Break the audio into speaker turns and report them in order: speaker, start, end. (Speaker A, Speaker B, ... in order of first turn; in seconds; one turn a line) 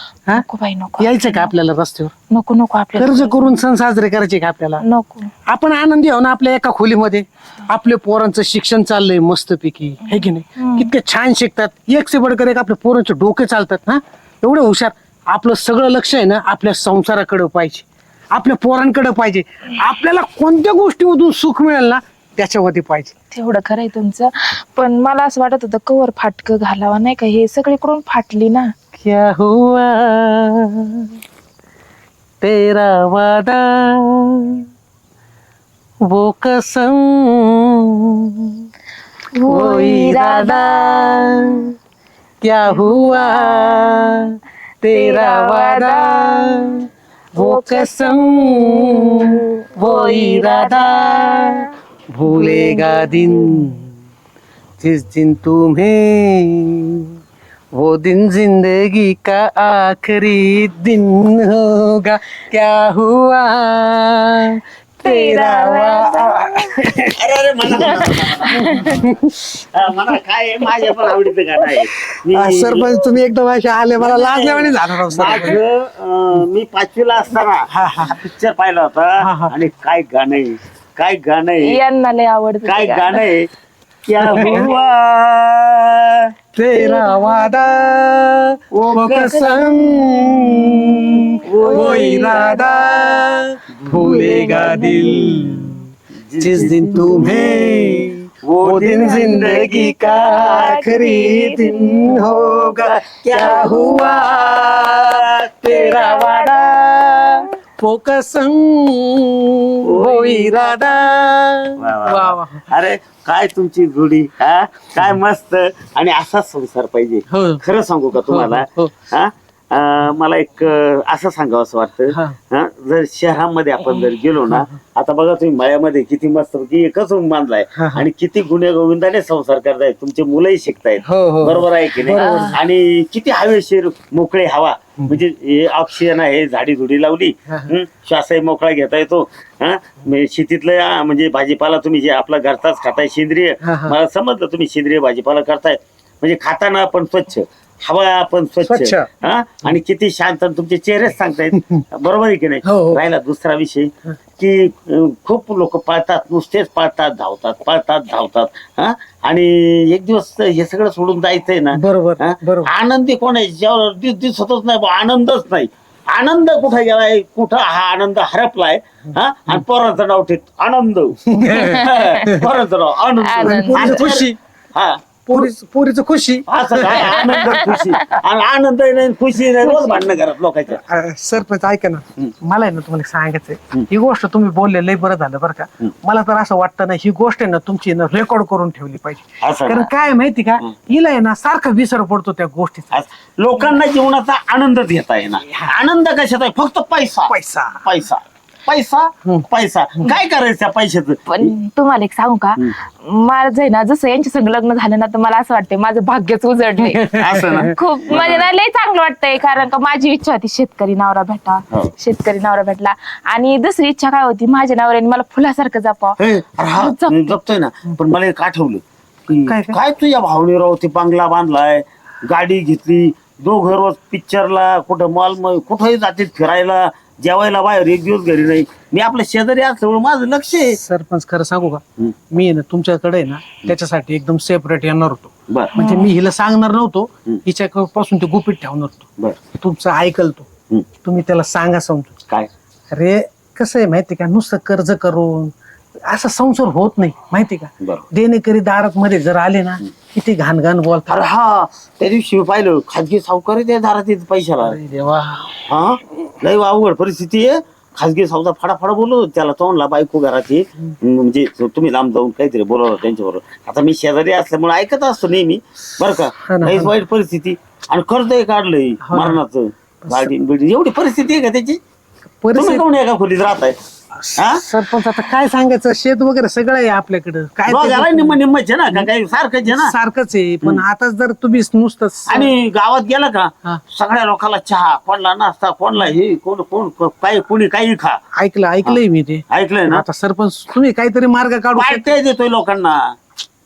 Speaker A: 0.3-1.5
Speaker B: 1.0-2.1
Speaker A: 2.3-3.5
Speaker B: 2.9-4.8
Speaker A: 4.8-5.3
Speaker B: 5.5-23.1
Speaker A: 10.6-10.9
Speaker A: 23.3-28.7
Speaker B: 29.0-31.1
Speaker B: 32.4-34.6
Speaker B: 36.0-38.6
Speaker A: 39.3-41.4
Speaker B: 39.5-41.7
Speaker B: 42.4-46.8
Speaker A: 42.8-43.9
Speaker A: 44.9-46.8
Speaker A: 47.3-51.7
Speaker B: 47.3-53.9
Speaker A: 52.2-53.7
Speaker B: 54.8-57.1
Speaker B: 57.7-66.9
Speaker A: 65.0-66.4
Speaker C: 67.1-69.0
Speaker A: 67.7-68.9
Speaker B: 68.6-69.5
Speaker C: 69.7-73.1
Speaker B: 72.3-75.6
Speaker C: 74.0-81.8
Speaker B: 77.7-78.2
Speaker B: 79.2-79.5
Speaker A: 81.7-83.2
Speaker C: 82.7-83.5
Speaker C: 84.0-86.2
Speaker B: 84.4-84.7
Speaker B: 86.5-91.2
Speaker A: 86.7-87.7
Speaker C: 88.8-89.3
Speaker A: 89.0-90.2
Speaker C: 91.4-92.4
Speaker A: 91.6-93.2
Speaker B: 91.7-95.8
Speaker C: 93.8-94.4
Speaker A: 93.9-95.5
Speaker C: 96.2-97.8
Speaker B: 96.4-112.7
Speaker A: 96.6-98.0
Speaker C: 98.5-100.7
Speaker A: 98.9-102.2
Speaker C: 102.2-105.2
Speaker A: 103.4-104.1
Speaker A: 105.7-107.3
Speaker C: 109.8-110.7
Speaker C: 111.8-171.2
Speaker B: 117.3-117.6
Speaker B: 118.3-118.9
Speaker B: 122.1-122.4
Speaker B: 127.8-128.1
Speaker B: 131.0-132.6
Speaker A: 132.1-132.6
Speaker B: 143.6-143.9
Speaker B: 148.6-149.1
Speaker B: 151.6-151.8
Speaker B: 152.6-153.0
Speaker B: 161.7-162.7
Speaker B: 171.3-172.4
Speaker A: 171.4-172.3
Speaker C: 171.7-175.5
Speaker A: 173.2-174.0
Speaker B: 173.4-174.4
Speaker B: 175.3-177.2
Speaker C: 176.5-180.8
Speaker A: 177.1-177.9
Speaker A: 179.6-180.1
Speaker B: 180.9-192.9
Speaker C: 189.4-189.9
Speaker C: 192.9-201.5
Speaker B: 195.4-195.7
Speaker B: 197.2-197.8
Speaker A: 201.3-216.2
Speaker B: 206.9-207.7
Speaker C: 207.1-208.5
Speaker C: 216.2-230.8
Speaker A: 216.8-217.4
Speaker B: 219.4-219.8
Speaker B: 230.8-240.5
Speaker A: 235.7-236.1
Speaker B: 241.0-242.1
Speaker B: 242.9-245.5
Speaker B: 246.1-251.2
Speaker C: 251.1-254.8
Speaker B: 254.6-255.6
Speaker C: 255.7-271.8
Speaker B: 266.4-266.9
Speaker B: 269.1-269.4
Speaker B: 270.1-270.3
Speaker B: 272.4-272.8
Speaker C: 272.6-273.8
Speaker B: 274.2-278.4
Speaker C: 277.7-279.9
Speaker B: 279.6-282.5
Speaker C: 282.3-288.2
Speaker B: 288.4-292.1
Speaker C: 289.5-290.0
Speaker C: 291.8-293.0